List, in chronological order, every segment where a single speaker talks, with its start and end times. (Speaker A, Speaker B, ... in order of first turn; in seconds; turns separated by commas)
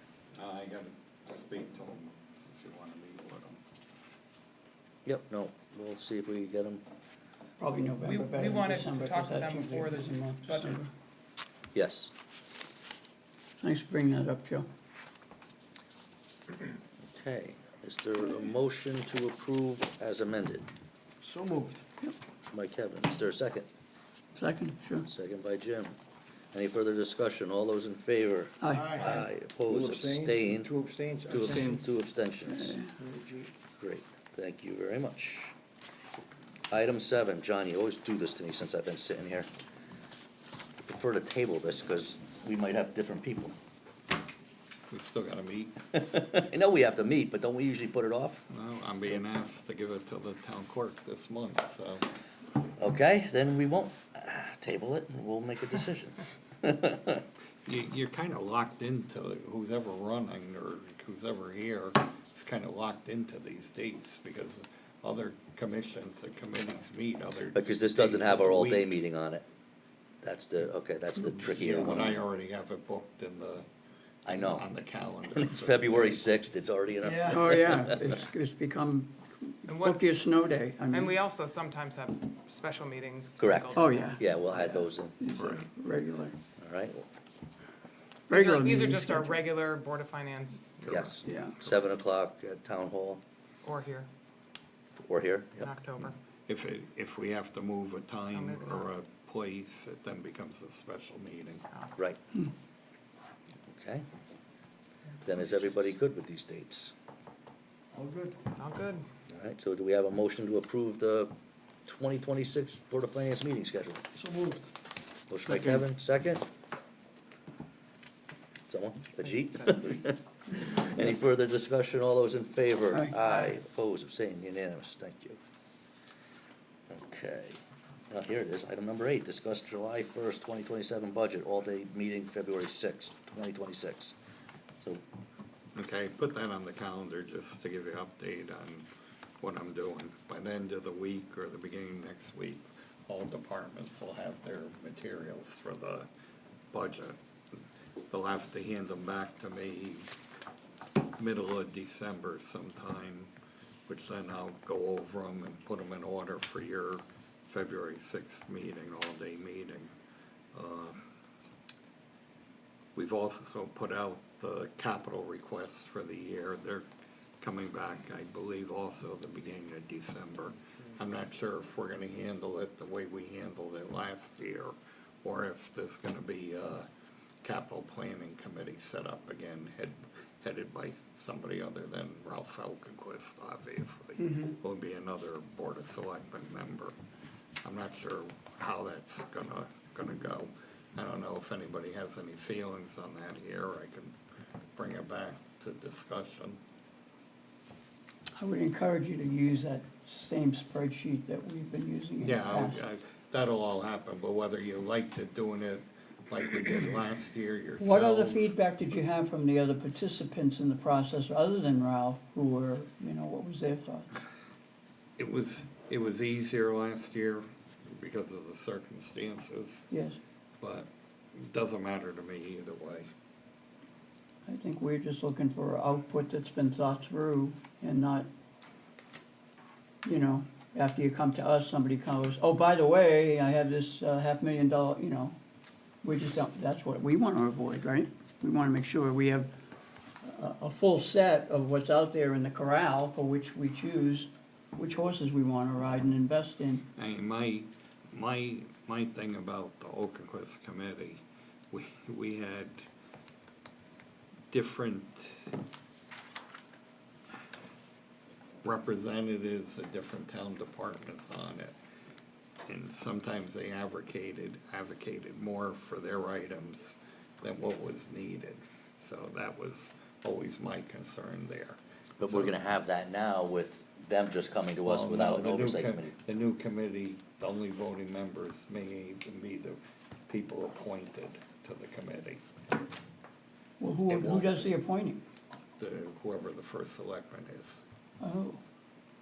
Speaker A: 0.3-3.6, Speaker B: 5.0-6.8, Speaker C: 7.6-10.9, Speaker D: 8.0-10.8, Speaker B: 11.7-12.1, Speaker C: 13.6-14.7, Speaker B: 17.1-20.7, Speaker E: 21.2-21.8, Speaker B: 22.4-23.7, Speaker C: 24.4-25.1, Speaker B: 25.1-25.9, Speaker B: 26.5-32.8, Speaker C: 28.6-29.0, Speaker E: 28.7-29.1, Speaker E: 29.7-31.8, Speaker C: 32.5-32.9, Speaker E: 33.0-33.4, Speaker B: 33.8-35.5, Speaker B: 36.7-39.5, Speaker B: 40.8-43.5, Speaker A: 44.9-45.8, Speaker B: 45.9-48.4, Speaker A: 48.5-52.0, Speaker B: 52.8-57.2, Speaker A: 57.6-68.9, Speaker B: 67.5-69.4, Speaker B: 70.2-72.2, Speaker A: 71.6-73.7, Speaker B: 74.2-74.6, Speaker A: 74.3-76.2, Speaker B: 75.3-78.1, Speaker C: 77.0-81.2, Speaker D: 79.7-80.0, Speaker D: 80.9-84.2, Speaker B: 83.4-85.2, Speaker C: 83.8-86.3, Speaker B: 86.6-87.0, Speaker C: 88.3-89.4, Speaker D: 88.3-91.0, Speaker B: 90.9-93.2, Speaker C: 91.2-91.6, Speaker D: 93.6-94.1, Speaker B: 95.0-95.7, Speaker D: 95.6-96.2, Speaker A: 96.5-101.6, Speaker D: 98.3-98.9, Speaker B: 103.7-104.0, Speaker B: 105.2-106.9, Speaker E: 108.0-108.4, Speaker D: 108.6-109.0, Speaker B: 109.3-111.3, Speaker B: 111.9-114.0, Speaker E: 114.2-114.7, Speaker B: 115.3-116.5, Speaker B: 118.7-125.4, Speaker B: 126.9-134.2, Speaker A: 135.8-138.9, Speaker A: 139.4-146.1, Speaker A: 146.7-147.2, Speaker A: 148.1-150.1, Speaker A: 151.0-153.3, Speaker A: 153.9-159.9, Speaker A: 160.5-161.0, Speaker A: 162.9-166.9, Speaker A: 167.4-176.9, Speaker A: 177.4-187.0, Speaker C: 184.2-184.5, Speaker A: 187.6-194.2, Speaker A: 194.8-196.6, Speaker C: 198.4-202.8, Speaker A: 202.2-208.6, Speaker C: 207.8-214.1, Speaker A: 215.2-219.9, Speaker C: 219.9-220.2, Speaker A: 220.6-223.1, Speaker C: 224.5-228.3, Speaker C: 230.0-235.4, Speaker C: 236.0-239.5, Speaker C: 240.2-246.9, Speaker A: 247.0-252.8, Speaker A: 254.5-255.6, Speaker A: 258.6-261.8, Speaker A: 262.6-272.5, Speaker B: 272.2-276.1, Speaker A: 274.8-282.4, Speaker C: 283.8-285.2, Speaker A: 284.1-284.7, Speaker A: 285.8-287.8, Speaker C: 288.2-288.6